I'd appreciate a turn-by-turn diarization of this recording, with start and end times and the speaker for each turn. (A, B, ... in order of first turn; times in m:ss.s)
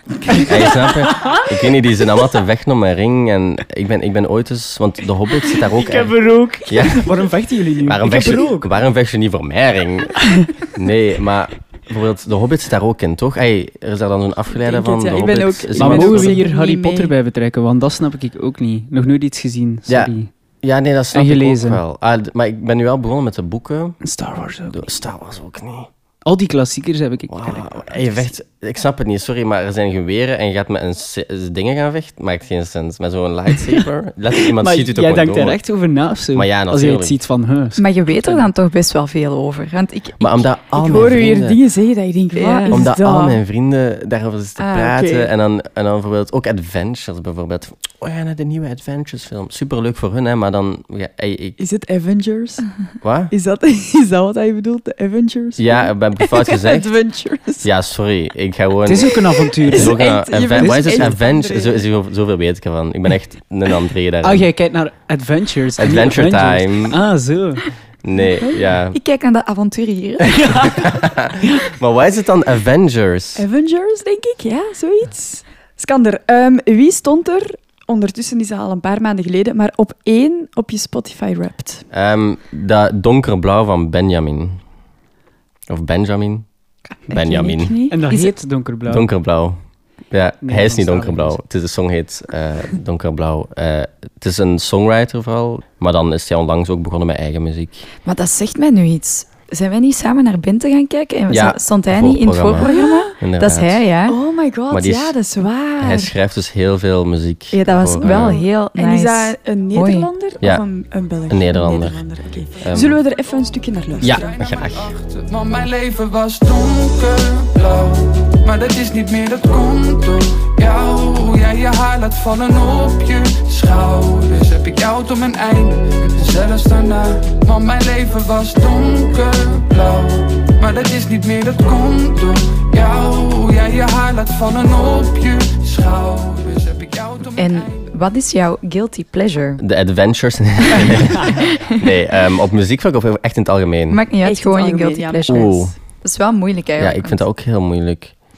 0:00.4-0:07.2 A
0:00.4-0:01.4 B
0:05.7-0:08.7 B
0:07.8-0:16.4 A
0:08.1-0:08.4 C
0:14.5-0:17.1 C
0:15.8-0:20.3 B
0:19.9-0:24.0 A
0:21.1-0:21.8 B
0:24.0-0:24.9 B
0:24.7-0:25.9 A
0:26.2-0:28.3 B
0:27.3-0:35.6 A
0:34.4-0:38.4 B
0:36.3-0:37.2 A
0:37.8-0:40.5 D
0:40.2-0:41.6 A
0:40.7-0:43.4 C
0:42.3-0:42.8 D
0:42.7-0:51.6 A
0:44.6-0:45.3 C
0:51.6-0:52.7 C
0:53.0-0:53.3 A
0:53.3-0:57.7 C
0:55.6-0:56.9 A
0:57.6-1:04.5 A
0:58.8-1:01.2 B
0:59.6-1:01.8 C
1:04.2-1:07.6 B
1:05.8-1:07.0 A
1:08.0-1:09.0 A
1:08.9-1:10.7 D
1:10.4-1:13.4 A
1:13.4-1:21.8 C
1:21.9-1:24.6 A
1:25.7-1:26.5 A
1:26.9-1:28.0 C
1:27.1-1:27.8 A
1:27.9-1:29.1 B
1:28.8-1:29.6 A
1:30.1-1:37.8 A
1:30.4-1:31.4 B
1:38.0-1:44.2 D
1:41.3-1:43.8 A
1:42.6-1:43.1 C
1:44.1-1:46.1 C
1:44.7-1:45.2 A
1:45.8-1:48.4 A
1:47.5-1:50.1 D
1:48.0-1:54.3 C
1:51.3-1:52.0 A
1:52.6-1:53.0 A
1:54.0-2:17.9 E
1:54.0-1:55.0 A
2:17.4-2:19.6 D
2:19.6-2:24.0 A
2:21.2-2:21.7 D
2:23.9-2:27.2 D
2:24.2-2:25.7 C
2:25.3-2:25.8 A
2:26.8-2:28.1 A